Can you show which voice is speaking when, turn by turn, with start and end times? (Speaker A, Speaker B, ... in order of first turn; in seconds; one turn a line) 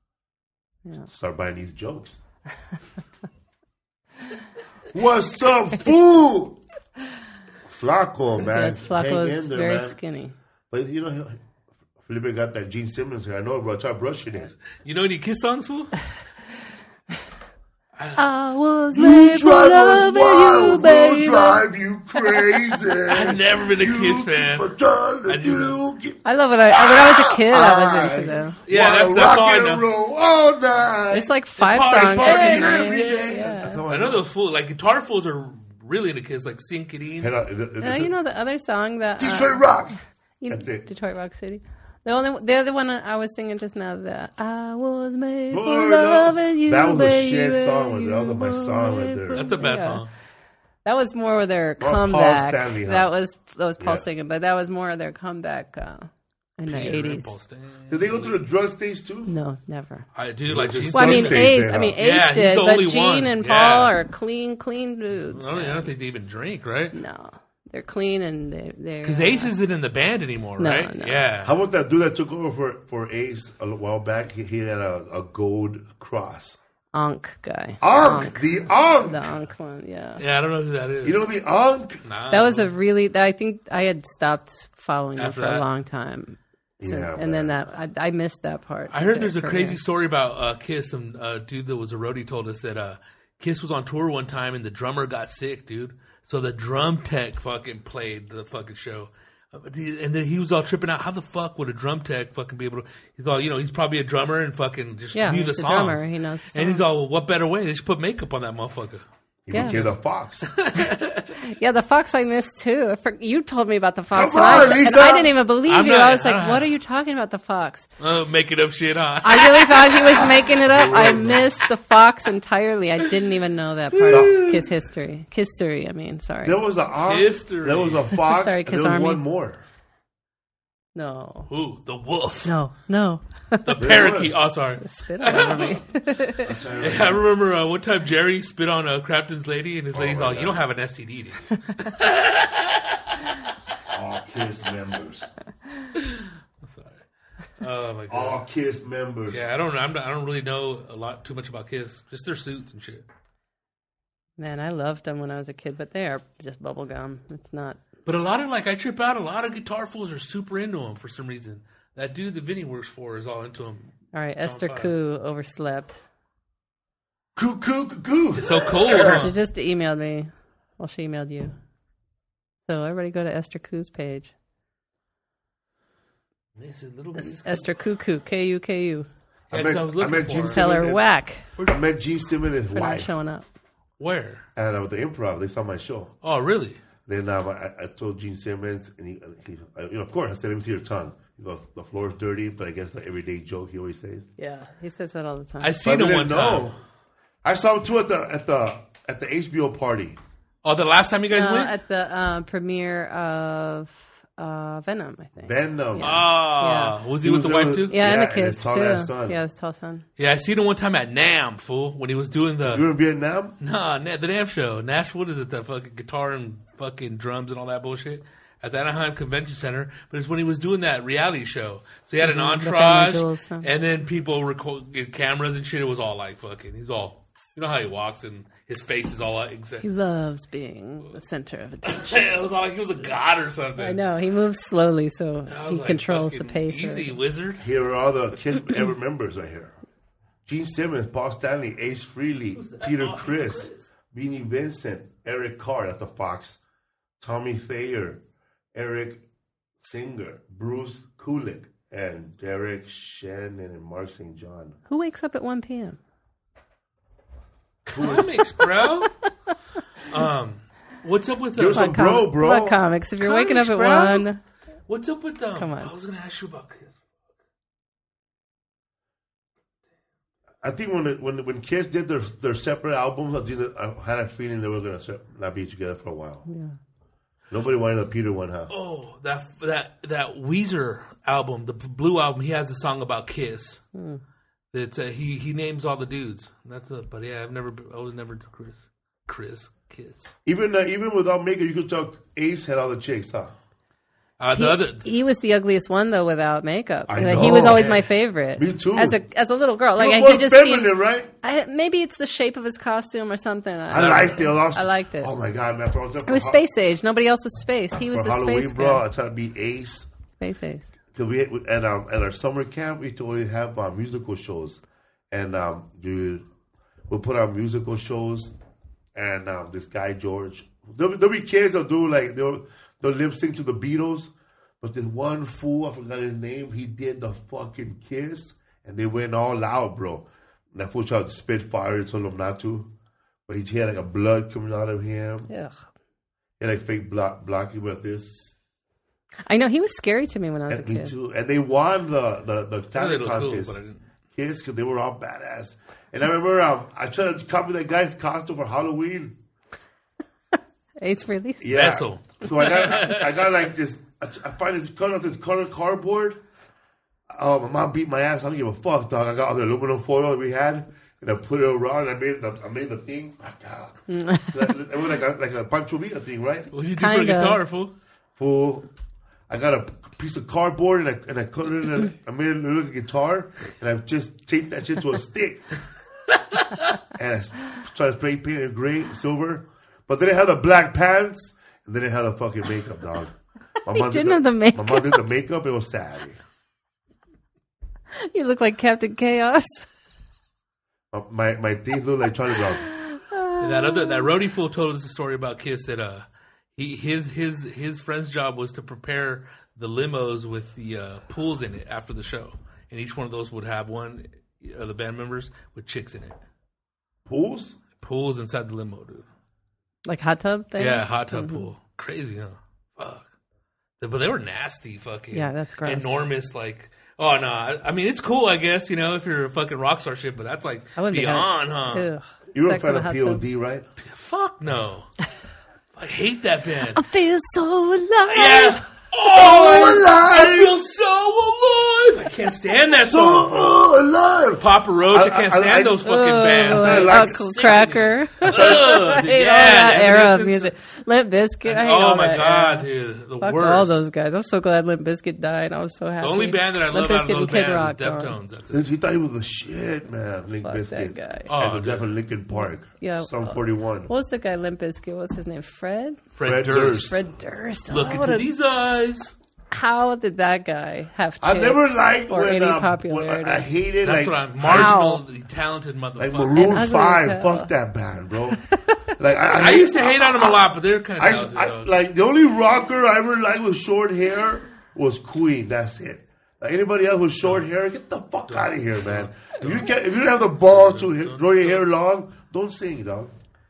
Speaker A: 1.1-2.2
Speaker A: 4.9-6.6
Speaker A: 7.7-10.0
Speaker B: 8.4-10.3
Speaker A: 10.7-11.4
Speaker A: 12.0-14.5
Speaker C: 14.8-15.9
Speaker B: 18.2-21.6
Speaker A: 18.9-26.2
Speaker B: 22.1-22.7
Speaker C: 23.1-24.7
Speaker C: 25.2-25.8
Speaker B: 26.2-28.6
Speaker A: 26.7-31.3
Speaker C: 28.7-29.9
Speaker B: 31.1-33.8
Speaker C: 31.6-37.3
Speaker A: 31.9-34.2
Speaker A: 37.2-38.1
Speaker B: 37.8-39.6
Speaker A: 39.2-40.9
Speaker B: 40.4-50.0
Speaker A: 45.5-49.5
Speaker C: 49.3-50.1
Speaker B: 50.8-57.3
Speaker A: 51.8-53.1
Speaker A: 53.8-54.0
Speaker C: 56.6-58.4
Speaker A: 57.9-59.3
Speaker B: 59.3-60.1
Speaker C: 60.1-63.9
Speaker A: 60.5-62.0
Speaker B: 60.9-65.9
Speaker C: 65.2-67.0
Speaker B: 66.9-69.5
Speaker C: 69.0-71.5
Speaker B: 70.6-71.2
Speaker A: 71.4-76.6
Speaker B: 76.9-78.4
Speaker A: 77.8-79.3
Speaker B: 79.0-80.2
Speaker C: 80.2-81.2
Speaker A: 81.0-82.0
Speaker C: 82.0-82.7
Speaker B: 82.3-89.8
Speaker C: 85.2-85.6
Speaker A: 86.8-87.5
Speaker C: 88.9-111.3
Speaker B: 105.1-106.8
Speaker A: 109.5-110.5
Speaker B: 109.5-109.8
Speaker B: 111.4-117.9
Speaker A: 114.1-115.3
Speaker C: 115.7-116.7
Speaker C: 118.0-121.5
Speaker B: 119.2-126.6
Speaker A: 120.7-121.3
Speaker C: 123.9-124.6
Speaker A: 124.1-124.4
Speaker A: 126.4-129.6
Speaker C: 127.1-128.2
Speaker B: 128.2-129.2
Speaker B: 130.9-131.5
Speaker C: 131.5-132.5
Speaker B: 132.4-133.9
Speaker C: 133.6-135.8
Speaker A: 133.8-134.4
Speaker B: 134.8-136.5
Speaker A: 136.4-137.2
Speaker C: 136.8-142.6
Speaker A: 139.9-140.6
Speaker A: 143.9-145.3
Speaker C: 146.0-147.0
Speaker C: 147.6-148.4
Speaker A: 148.1-149.4
Speaker C: 149.3-153.0
Speaker B: 154.4-157.8
Speaker C: 158.1-163.9
Speaker B: 164.1-165.9
Speaker C: 164.4-164.9
Speaker A: 167.3-169.2
Speaker C: 168.3-169.4
Speaker B: 168.9-171.5
Speaker B: 172.7-174.3
Speaker C: 176.6-177.7
Speaker B: 177.2-179.1
Speaker C: 179.5-180.6
Speaker A: 179.5-181.0
Speaker B: 180.5-181.4
Speaker A: 181.6-183.1
Speaker B: 182.7-183.4
Speaker C: 184.0-184.4
Speaker A: 184.6-186.1
Speaker C: 186.2-186.8
Speaker A: 187.1-194.3
Speaker B: 194.4-195.7
Speaker C: 195.6-196.7
Speaker A: 195.8-196.8
Speaker A: 197.4-200.2
Speaker C: 200.6-201.7
Speaker B: 201.3-207.0
Speaker A: 205.4-206.2
Speaker C: 206.0-207.9
Speaker A: 207.2-209.4
Speaker B: 207.9-210.0
Speaker C: 210.2-212.8
Speaker A: 212.6-213.5
Speaker C: 213.6-229.9
Speaker B: 222.2-223.7
Speaker B: 229.8-232.3
Speaker C: 231.8-234.0
Speaker B: 233.8-237.2
Speaker C: 235.5-237.6
Speaker A: 237.6-239.7
Speaker A: 240.4-246.6
Speaker C: 242.6-243.9
Speaker A: 247.2-248.2
Speaker A: 248.7-249.2
Speaker A: 249.8-254.8
Speaker B: 254.9-256.0
Speaker C: 257.9-259.1
Speaker A: 257.9-258.2
Speaker B: 258.0-259.1
Speaker C: 260.1-261.9
Speaker A: 261.5-262.8
Speaker B: 261.7-264.4
Speaker C: 263.2-264.3
Speaker C: 264.9-266.9
Speaker B: 265.6-265.9
Speaker A: 270.6-276.4
Speaker B: 276.5-276.8
Speaker A: 277.5-278.7
Speaker C: 278.7-283.8
Speaker B: 283.9-284.2
Speaker C: 284.7-290.3
Speaker A: 290.4-293.5
Speaker C: 294.4-295.1
Speaker B: 294.5-305.3
Speaker A: 297.1-298.0
Speaker C: 297.2-298.1
Speaker A: 298.6-299.2
Speaker A: 299.9-301.3
Speaker A: 303.9-306.6
Speaker C: 303.9-304.4
Speaker B: 306.3-309.0
Speaker A: 308.1-310.1
Speaker B: 310.4-310.9
Speaker A: 311.1-316.4
Speaker A: 317.1-318.5
Speaker A: 319.1-332.9
Speaker A: 333.5-335.5
Speaker B: 335.5-335.7
Speaker A: 336.6-338.5
Speaker B: 339.5-341.1
Speaker A: 340.7-343.8
Speaker C: 342.9-344.0
Speaker A: 344.3-349.3
Speaker B: 351.0-351.7
Speaker A: 351.6-356.4
Speaker C: 351.7-353.3
Speaker A: 357.3-366.7
Speaker B: 364.1-364.6
Speaker C: 366.7-367.9
Speaker B: 366.9-367.6
Speaker A: 368.4-368.9
Speaker A: 369.5-375.6
Speaker A: 377.1-386.4
Speaker B: 383.9-385.2
Speaker B: 388.2-389.9
Speaker A: 391.1-392.8
Speaker B: 392.8-394.3
Speaker C: 393.6-396.2
Speaker C: 396.8-406.4
Speaker A: 407.2-407.7
Speaker C: 408.0-409.2
Speaker B: 410.0-411.6
Speaker C: 410.8-413.2
Speaker C: 414.0-422.1
Speaker B: 415.3-416.1
Speaker B: 420.9-423.4
Speaker A: 422.5-423.9
Speaker C: 424.0-425.1
Speaker C: 426.0-427.0
Speaker B: 426.9-428.8
Speaker C: 428.3-433.8
Speaker A: 429.2-430.8
Speaker A: 433.0-436.0
Speaker C: 434.6-440.7
Speaker B: 436.0-442.9
Speaker A: 436.6-437.8
Speaker A: 438.4-439.0
Speaker C: 441.6-444.0
Speaker B: 443.4-448.4
Speaker C: 446.2-448.9
Speaker A: 448.7-454.1
Speaker B: 450.6-451.5
Speaker C: 451.5-452.1
Speaker B: 452.5-456.3
Speaker C: 456.3-457.2
Speaker A: 456.4-457.2
Speaker B: 457.0-458.4
Speaker C: 457.9-459.3
Speaker B: 459.7-463.7
Speaker A: 461.4-464.9
Speaker C: 464.0-466.8
Speaker B: 464.6-465.2
Speaker A: 466.2-468.6
Speaker B: 466.5-467.7
Speaker B: 468.7-469.0
Speaker A: 469.2-470.5
Speaker C: 469.5-471.9
Speaker A: 471.2-483.3
Speaker C: 478.5-479.9
Speaker C: 480.6-481.8